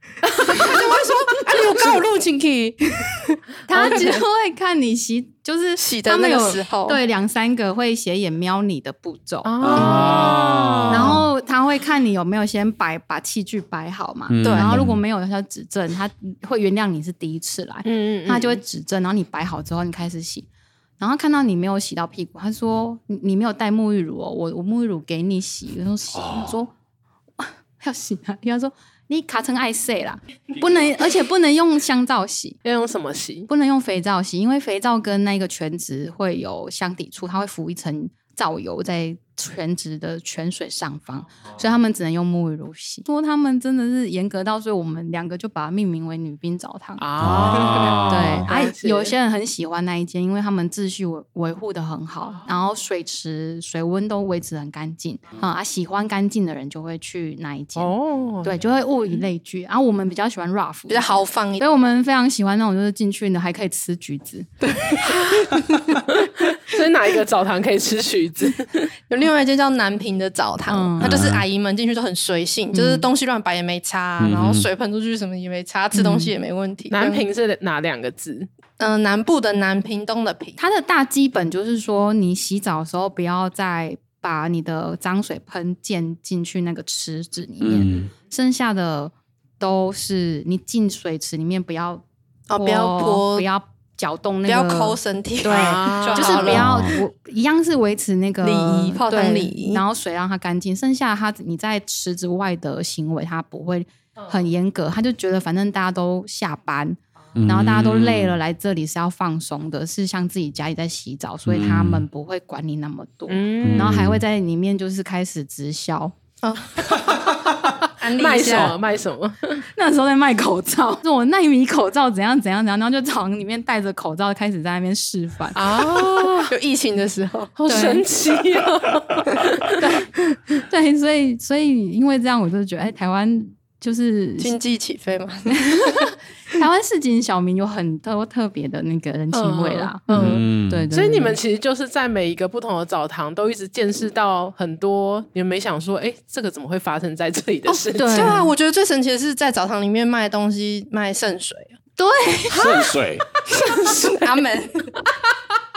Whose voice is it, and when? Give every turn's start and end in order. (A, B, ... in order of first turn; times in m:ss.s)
0:00.2-0:02.0 A
0:00.4-0:04.2 B
0:03.7-0:10.0 C
0:03.7-0:04.2 A
0:05.8-0:07.0 B
0:09.4-0:10.6 A
0:09.6-0:11.2 D
0:09.9-0:11.2 B
0:10.9-0:20.5 C
0:14.3-0:15.0 D
0:14.4-0:14.8 B
0:17.8-0:18.6 A
0:21.0-0:26.7 C
0:26.1-0:26.6 D
0:27.4-0:32.6 C
0:32.6-0:33.5 A
0:33.5-0:47.0 C
0:47.0-0:49.1 A
0:47.2-0:48.5 D
0:48.1-1:04.5 C
0:57.8-0:58.6 A
1:00.9-1:01.7 B
1:04.6-1:06.0 B
1:06.2-1:08.9 A
1:09.1-1:17.2 B
1:10.7-1:11.2 C
1:11.0-1:11.4 D
1:12.7-1:13.1 C
1:14.2-1:14.7 D
1:15.9-1:16.3 C
1:16.9-1:18.5 A
1:18.8-1:20.6 B
1:20.6-1:32.0 C
1:27.6-1:28.1 D
1:32.5-1:33.5 B
1:32.6-1:56.2 C
1:34.5-1:36.8 B
1:35.5-1:36.6 A
1:36.5-1:37.0 D
1:38.4-1:39.8 B
1:47.4-1:48.4 D
1:51.5-1:52.1 D
1:53.3-1:53.9 A
1:53.6-1:54.2 D
1:56.4-1:56.7 B
1:58.0-1:58.8 B
1:58.1-1:59.6 A
1:59.7-2:05.7 C
2:05.6-2:06.5 A
2:06.5-2:07.5 B
2:07.6-2:10.0 A
2:07.7-2:08.0 C
2:10.7-2:14.6 C
2:14.4-2:16.1 B
2:15.6-2:21.4 C
2:19.3-2:28.4 A
2:20.1-2:20.9 D
2:27.7-2:31.7 B
2:28.0-2:28.5 C
2:32.0-2:32.8 C
2:32.5-2:33.3 D
2:33.5-2:34.2 A
2:34.0-2:35.0 B